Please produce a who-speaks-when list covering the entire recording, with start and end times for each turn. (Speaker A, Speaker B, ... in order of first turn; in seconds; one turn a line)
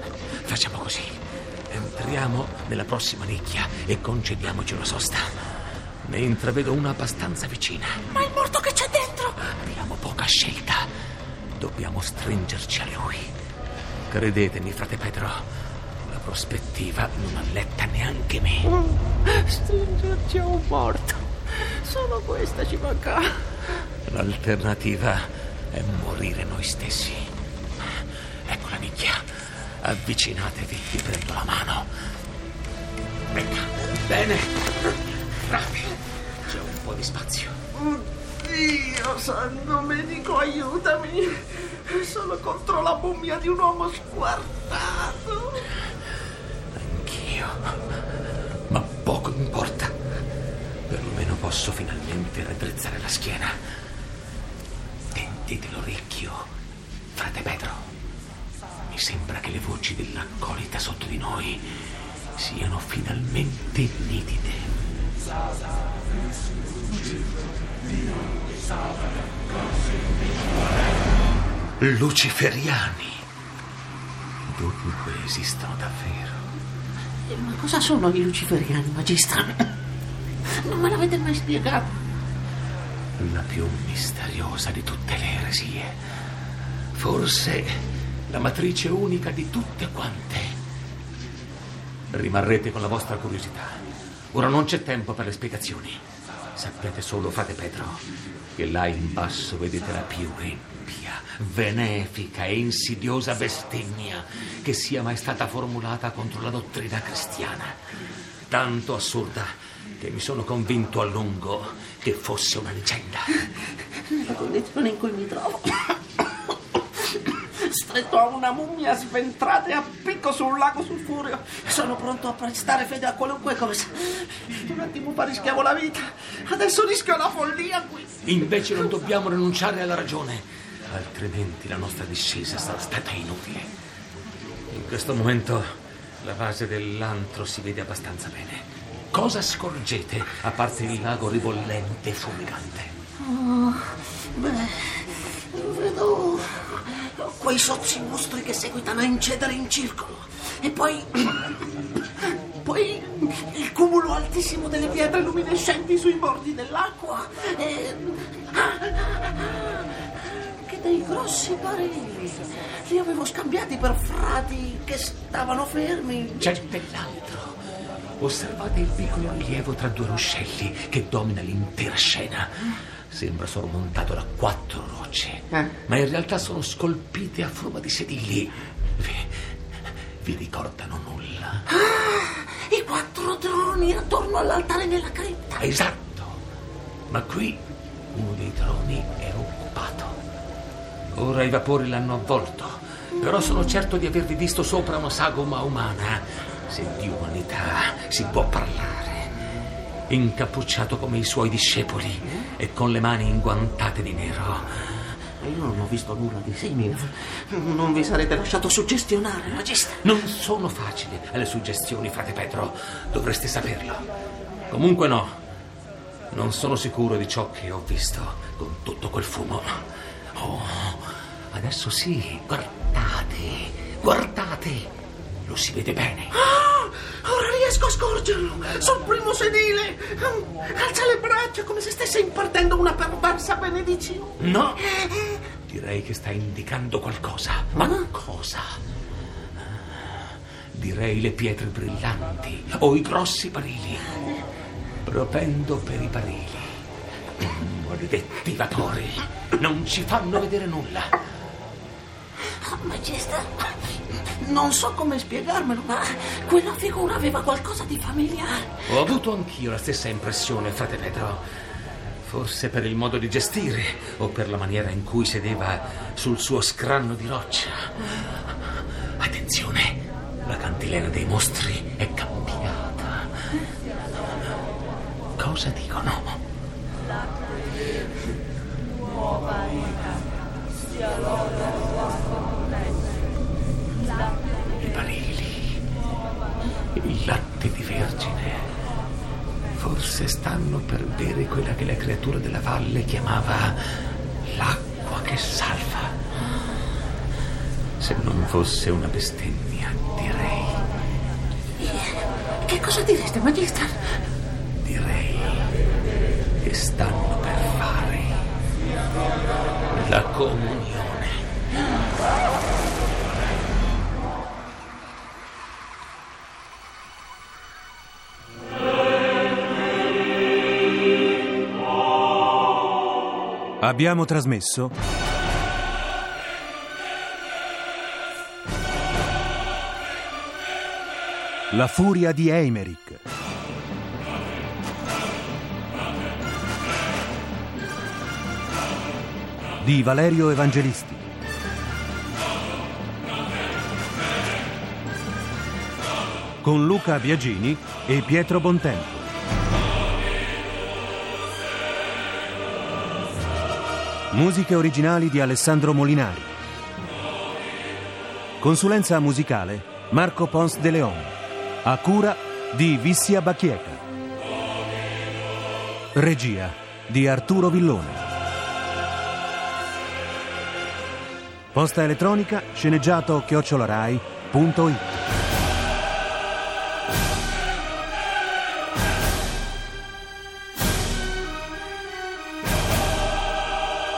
Speaker A: 0.4-5.3
Speaker A: 6.0-8.1
Speaker B: 8.1-9.3
Speaker A: 9.3-10.9
Speaker A: 11.6-13.3
Speaker A: 14.1-15.4
Speaker A: 16.0-18.7
Speaker B: 18.8-23.5
Speaker A: 24.1-27.3
Speaker A: 28.4-31.9
Speaker A: 33.3-34.8
Speaker A: 35.4-37.6
Speaker B: 37.8-45.6
Speaker A: 46.7-47.7
Speaker A: 48.7-50.0
Speaker A: 50.9-53.6
Speaker A: 55.1-56.5
Speaker A: 57.1-57.9
Speaker A: 58.9-61.7
Speaker A: 62.4-64.8
Speaker A: 71.8-73.2
Speaker A: 74.4-76.4
Speaker B: 77.3-79.7
Speaker B: 80.5-81.9
Speaker A: 83.2-86.0
Speaker A: 86.9-90.6
Speaker A: 92.1-96.0
Speaker A: 96.5-107.8
Speaker A: 108.5-113.4
Speaker B: 113.9-128.1
Speaker A: 128.2-133.7
Speaker A: 134.7-135.7
Speaker A: 136.2-142.9
Speaker B: 143.2-151.6
Speaker B: 152.2-166.6
Speaker A: 166.4-167.6
Speaker A: 168.2-179.5
Speaker A: 180.2-181.7
Speaker B: 181.7-185.6
Speaker A: 185.6-186.4
Speaker A: 187.1-190.2
Speaker A: 191.1-199.3
Speaker A: 200.1-204.8
Speaker B: 205.4-210.1
Speaker A: 210.0-214.1
Speaker A: 214.7-215.4
Speaker A: 216.3-224.9
Speaker A: 225.4-226.3
Speaker B: 226.3-234.3
Speaker A: 234.4-238.8
Speaker B: 234.9-235.3
Speaker A: 239.7-244.2
Speaker A: 245.0-246.8
Speaker A: 247.4-251.2
Speaker B: 252.5-258.8
Speaker A: 258.9-261.4
Speaker A: 262.2-268.6
Speaker A: 269.2-273.4
Speaker A: 275.4-276.4
Speaker A: 284.8-285.8
Speaker A: 286.9-288.7
Speaker A: 289.8-293.8
Speaker A: 294.4-296.2
Speaker A: 298.0-300.8
Speaker B: 301.8-304.0
Speaker A: 304.8-305.7
Speaker A: 306.6-308.4
Speaker A: 309.9-311.4
Speaker C: 323.8-324.9
Speaker C: 331.7-333.2
Speaker C: 339.8-341.2
Speaker C: 346.6-349.3
Speaker C: 354.3-356.5
Speaker C: 358.6-364.0
Speaker C: 366.1-368.2
Speaker C: 371.7-375.0